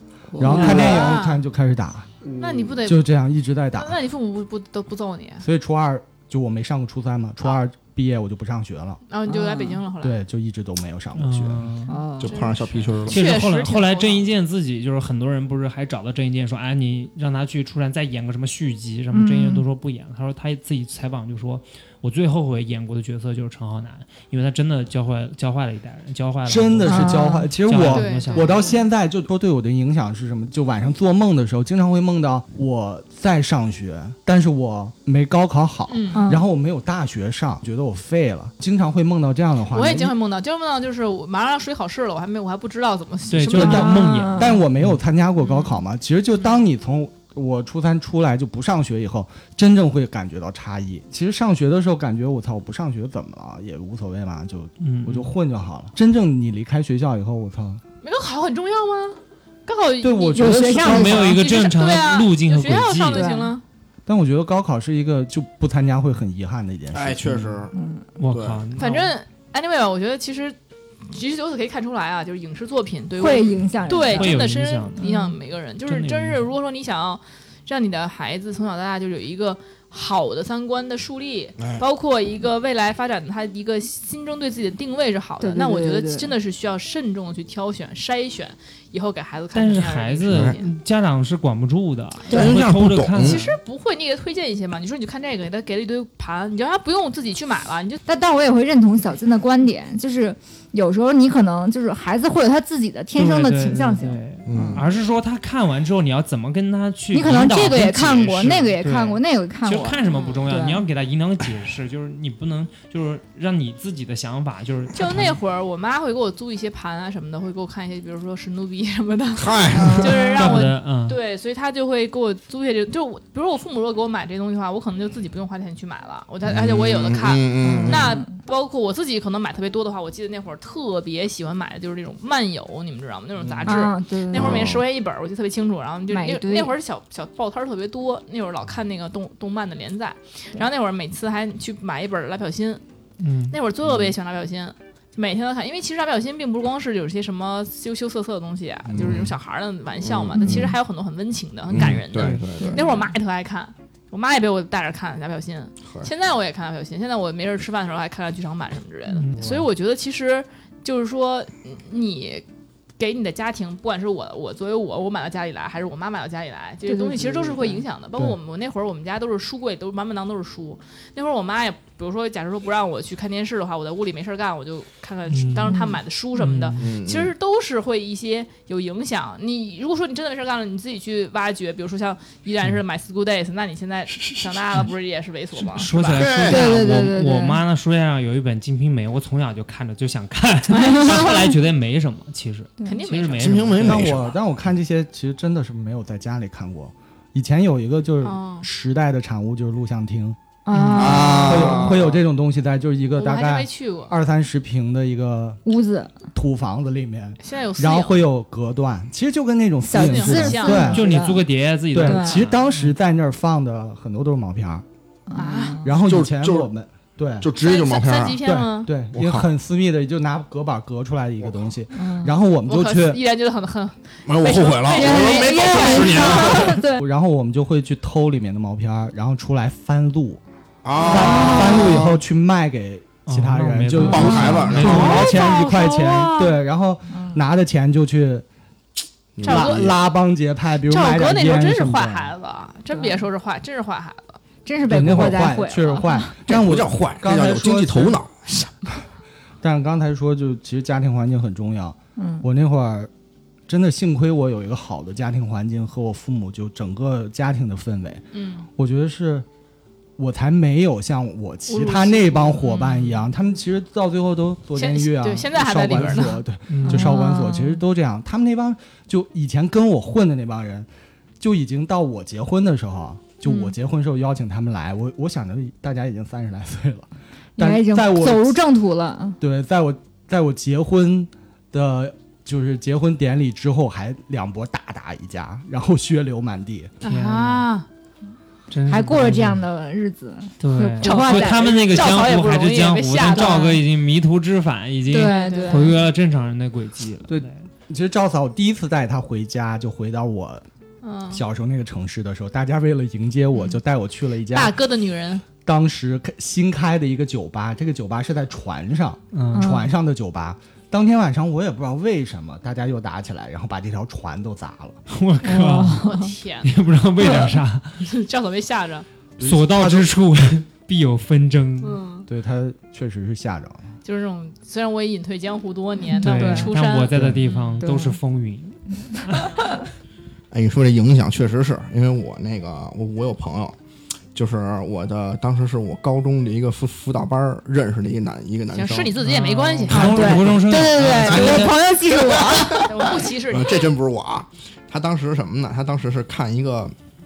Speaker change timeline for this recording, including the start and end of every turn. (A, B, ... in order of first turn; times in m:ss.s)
0:00.4-0:01.0 A
0:00.4-0:02.1 B
0:00.4-0:01.4 C
0:02.4-0:03.0 C
0:02.8-0:04.0 B
0:03.8-0:05.5 C
0:05.4-0:09.0 B
0:09.1-0:10.2 C
0:09.3-0:09.8 A
0:10.0-0:11.8 B
0:11.2-0:12.0 D
0:11.9-0:12.4 A
0:12.2-0:13.2 E
0:12.2-0:14.3 C
0:13.0-0:28.7 D
0:19.1-0:19.6 A
0:26.4-0:40.1 B
0:26.9-0:27.5 A
0:27.9-0:28.8 C
0:35.9-0:36.3 C
0:36.1-0:36.5 A
0:39.7-0:44.2 C
0:43.3-0:45.0 D
0:43.5-0:57.8 B
0:43.6-0:44.6 A
0:45.4-0:45.8 C
0:54.8-0:55.3 D
0:58.0-1:03.6 C
1:00.0-1:01.3 B
1:00.4-1:01.3 A
1:00.8-1:03.3 D
1:03.1-1:03.6 A
1:04.1-1:07.5 B
1:06.9-1:07.8 E
1:07.7-1:08.0 A
1:08.2-1:09.2 D
1:08.3-1:08.6 E
1:08.8-1:30.7 C
1:13.2-1:14.4 A
1:14.0-1:15.1 D
1:15.0-1:15.4 A
1:15.8-1:16.5 D
1:21.6-1:21.8 E
1:25.4-1:26.3 A
1:29.5-1:33.6 D
1:30.3-1:30.5 E
1:32.3-1:33.4 E
1:33.2-1:38.0 C
1:38.1-1:44.8 A
1:43.2-1:55.4 D
1:44.5-1:44.8 E
1:47.1-1:50.8 A
1:50.0-1:50.4 C
1:54.9-2:22.8 C
1:59.4-2:00.2 E
1:59.7-2:00.7 A
2:00.3-2:01.2 D
2:06.4-2:08.2 E
2:07.6-2:08.3 A
2:13.4-2:13.7 E
2:13.7-2:14.6 A
2:14.3-2:14.8 E
2:16.1-2:16.7 A
2:23.2-2:23.6 D
2:23.5-2:42.4 C
2:28.9-2:29.3 E
2:30.0-2:30.8 E
2:31.7-2:32.8 E
2:31.8-2:32.7 D
2:32.6-2:32.9 A
2:39.2-2:39.7 D
2:43.0-3:06.3 C
2:46.8-2:47.8 A
2:55.3-2:55.8 D
2:55.7-2:56.0 A
2:56.4-2:56.9 D
2:56.8-2:57.3 E
3:05.7-3:14.2 D
3:06.1-3:06.8 E
3:06.5-3:07.6 A
3:10.7-3:11.5 A
3:10.8-3:11.2 C
3:12.8-3:13.7 C
3:13.4-3:14.3 E
3:13.8-3:20.4 B
3:18.2-3:18.7 C
3:20.6-3:21.9 A
3:20.7-3:21.1 D
3:20.9-3:22.2 E
3:21.0-3:25.6 B
3:23.2-3:24.2 C
3:25.7-3:26.2 A
3:26.3-3:31.4 B
3:27.4-3:28.2 C
3:29.8-3:31.4 A
3:29.9-3:31.0 C
3:30.8-3:32.9 D
3:31.9-3:34.8 B
3:32.0-3:32.4 A
3:35.3-3:35.9 A
3:35.4-3:35.9 C
3:35.8-3:37.5 B
3:36.0-3:36.7 E
3:37.4-3:38.4 E
3:37.6-3:38.9 C
3:38.4-3:43.2 B
3:39.1-3:39.5 E
3:42.0-3:42.3 A
3:42.7-3:46.3 C
3:44.3-3:46.8 E
3:44.9-3:47.0 A
3:46.3-3:46.6 D
3:47.0-3:50.4 B
3:50.8-3:52.2 E
3:51.0-3:51.6 C
3:51.1-3:58.4 B
3:51.1-3:52.0 A
3:53.3-3:55.3 D
3:54.0-3:55.7 A
3:54.1-3:55.2 E
3:54.7-3:56.6 C
3:57.1-3:57.4 A
3:59.4-4:00.0 E
3:59.4-3:59.9 C
3:59.4-4:02.3 B
4:00.9-4:04.4 C
4:02.9-4:03.2 A
4:04.7-4:06.4 A
4:04.8-4:08.2 B
4:06.5-4:08.3 E
4:08.5-4:09.0 C
4:09.6-4:13.1 B
4:12.2-4:12.4 A
4:13.7-4:18.2 B
4:18.3-4:18.7 C
4:18.8-4:19.5 B
4:20.2-4:30.9 B
4:21.7-4:23.2 C
4:24.8-4:26.4 C
4:26.7-4:27.2 D
4:26.9-4:27.8 A
4:31.4-4:38.6 B
4:33.5-4:33.7 A
4:37.6-4:39.4 A
4:39.4-4:46.9 B
4:47.0-4:47.7 D
4:47.0-4:47.9 C
4:48.7-4:49.7 D
4:48.9-4:52.1 A
4:50.6-4:57.6 D
4:51.0-4:53.8 C
4:53.3-4:53.8 A
4:55.1-4:56.0 A
4:55.1-4:56.0 C
4:57.3-5:00.6 B
5:01.0-5:01.4 C
5:01.3-5:04.8 B
5:04.5-5:05.4 C
5:05.6-5:15.0 B
5:09.3-5:09.7 D
5:09.5-5:09.9 A
5:15.1-5:16.1 D
5:15.4-5:16.3 A
5:16.0-5:16.7 C
5:16.6-5:18.0 D
5:17.2-5:17.6 A
5:18.0-5:19.1 C
5:19.4-5:20.1 B
5:19.4-5:22.0 D
5:21.8-5:22.3 C
5:22.3-5:23.9 B
5:24.0-5:27.2 C
5:26.0-5:26.7 A
5:26.2-5:29.8 D
5:27.1-5:27.4 B
5:27.8-5:28.2 A
5:30.5-5:33.8 E
5:34.3-5:39.2 E
5:38.7-5:40.4 C
5:39.2-5:41.8 D
5:39.9-5:43.2 A
5:41.1-5:46.9 E
5:42.8-5:43.9 C